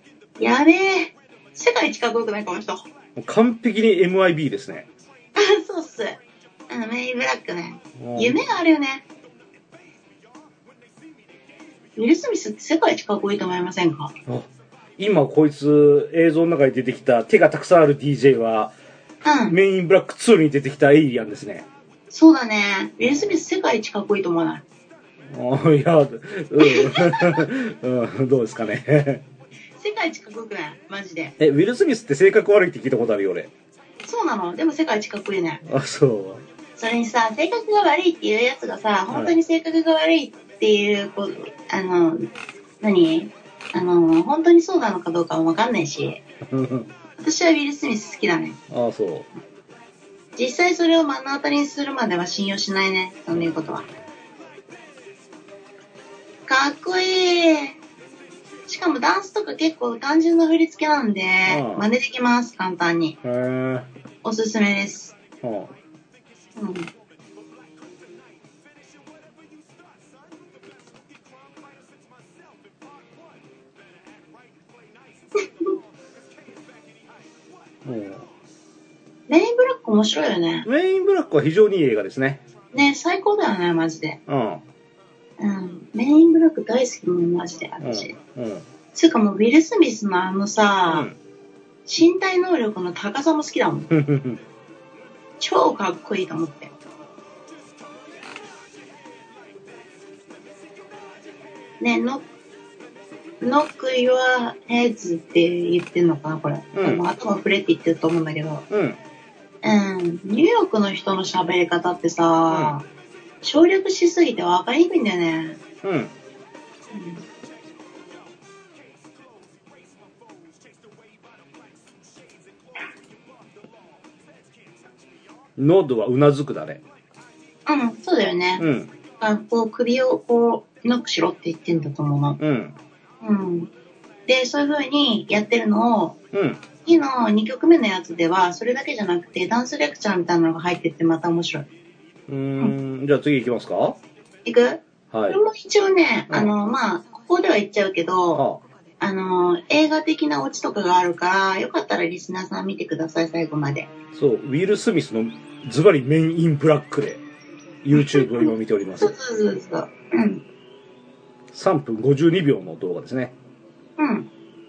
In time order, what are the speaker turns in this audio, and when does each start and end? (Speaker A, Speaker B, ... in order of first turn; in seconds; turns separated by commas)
Speaker A: 0.4-2.9, Speaker B: 3.2-4.9, Speaker A: 5.3-9.0, Speaker B: 8.0-8.5, Speaker A: 11.9-14.1, Speaker B: 14.3-18.7, Speaker A: 19.2-19.6, Speaker B: 19.5-21.7, Speaker A: 22.1-24.6, Speaker B: 23.0-23.4, Speaker B: 25.3-29.2, Speaker A: 26.6-27.4, Speaker A: 29.8-31.4, Speaker B: 31.4-33.5, Speaker A: 34.0-35.6, Speaker B: 35.6-36.4, Speaker A: 36.8-46.2, Speaker B: 39.1-39.3, Speaker B: 46.4-46.9, Speaker A: 47.2-48.6, Speaker B: 48.7-49.3, Speaker A: 50.4-53.9, Speaker A: 56.5-57.8, Speaker A: 58.7-63.2, Speaker B: 61.5-61.9, Speaker B: 63.2-63.9, Speaker A: 64.2-65.2, Speaker B: 65.4-65.7, Speaker A: 66.5-66.9, Speaker B: 77.8-78.3, Speaker A: 79.3-80.7, Speaker B: 80.6-82.4, Speaker A: 82.7-84.2, Speaker B: 84.3-84.6, Speaker A: 85.4-88.1, Speaker B: 87.8-88.7, Speaker A: 88.9-91.1, Speaker B: 90.9-91.2, Speaker A: 91.9-93.9, Speaker B: 93.9-94.4, Speaker A: 95.4-96.7, Speaker A: 101.8-102.2, Speaker A: 103.4-108.7, Speaker B: 106.7-107.0, Speaker B: 108.7-109.0, Speaker A: 109.6-112.8, Speaker B: 112.5-112.8, Speaker A: 113.4-115.6, Speaker B: 115.8-116.1, Speaker A: 116.9-117.2, Speaker B: 125.6-126.8, Speaker A: 127.7-132.4, Speaker B: 128.6-128.9, Speaker B: 132.4-132.8, Speaker A: 133.2-133.7, Speaker A: 134.3-136.2, Speaker B: 136.3-136.6, Speaker A: 136.8-141.7, Speaker B: 142.3-144.0, Speaker A: 144.4-148.4, Speaker B: 145.1-145.4, Speaker B: 148.3-148.6, Speaker A: 149.0-153.9, Speaker B: 154.1-157.2, Speaker B: 157.8-159.1, Speaker A: 157.9-160.4, Speaker B: 161.5-163.3, Speaker A: 164.0-164.3